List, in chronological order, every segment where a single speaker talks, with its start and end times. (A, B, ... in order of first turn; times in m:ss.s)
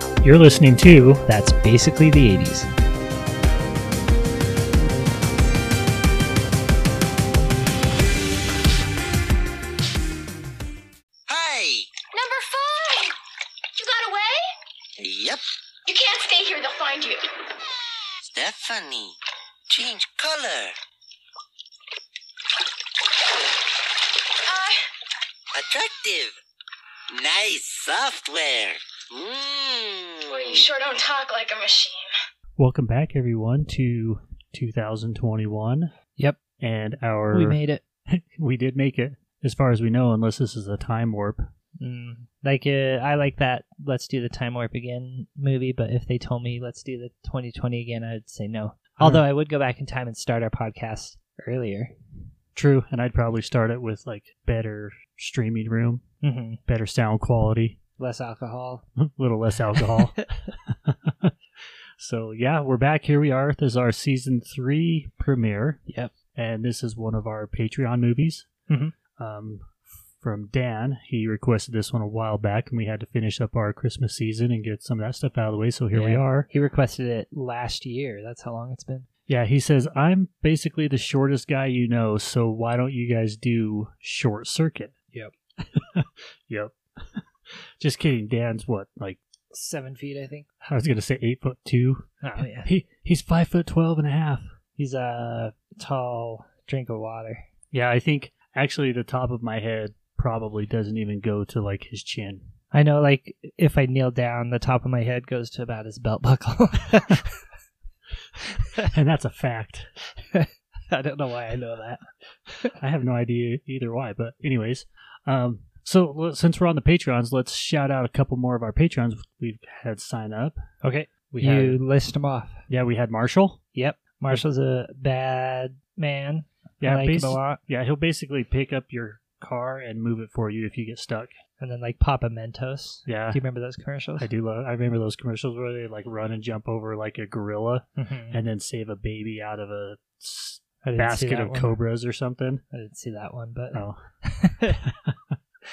0:00.2-0:01.2 A
0:01.3-0:02.7 B
0:11.3-0:11.9 C
0:12.1-0:13.2 D
0:13.8-0:14.5 D
0:15.0-0:15.4 C
0:15.9-0:17.3 D
0:18.2-0:19.2 C
0:19.7-0:20.8 C
0:24.5-0:24.9 D
0:25.5-0:26.4 C
0:27.1-0:30.7 C
0:30.3-0:32.1 D
0:32.6-0:35.9 A
0:36.6-0:41.5 A
0:37.3-0:37.8 B
0:41.8-0:51.9 B
0:52.6-0:56.0 A
0:56.2-0:56.6 B
0:56.7-0:57.8 A
0:58.0-0:58.8 B
0:59.0-1:01.3 A
0:59.8-1:00.2 B
1:02.0-1:05.8 A
1:05.9-1:06.1 B
1:06.3-1:08.5 A
1:08.7-1:08.9 B
1:09.2-1:16.5 A
1:15.9-1:19.1 B
1:19.3-1:24.9 A
1:25.6-1:29.2 A
1:29.5-1:30.5 B
1:30.6-1:32.1 A
1:32.2-1:32.7 B
1:32.6-1:34.5 A
1:34.8-1:37.4 B
1:37.7-1:42.5 A
1:42.7-1:47.4 B
1:48.8-1:49.9 A
1:50.3-1:52.8 B
1:52.8-2:00.6 A
2:00.8-2:02.6 B
2:01.3-2:01.8 A
2:02.7-2:03.6 A
2:03.8-2:07.6 B
2:06.8-2:11.4 A
2:11.6-2:14.3 B
2:13.1-2:13.4 A
2:14.2-2:22.6 A
2:18.0-2:18.4 B
2:20.8-2:21.8 B
2:22.7-2:24.8 B
2:23.7-2:24.0 A
2:24.8-2:25.4 A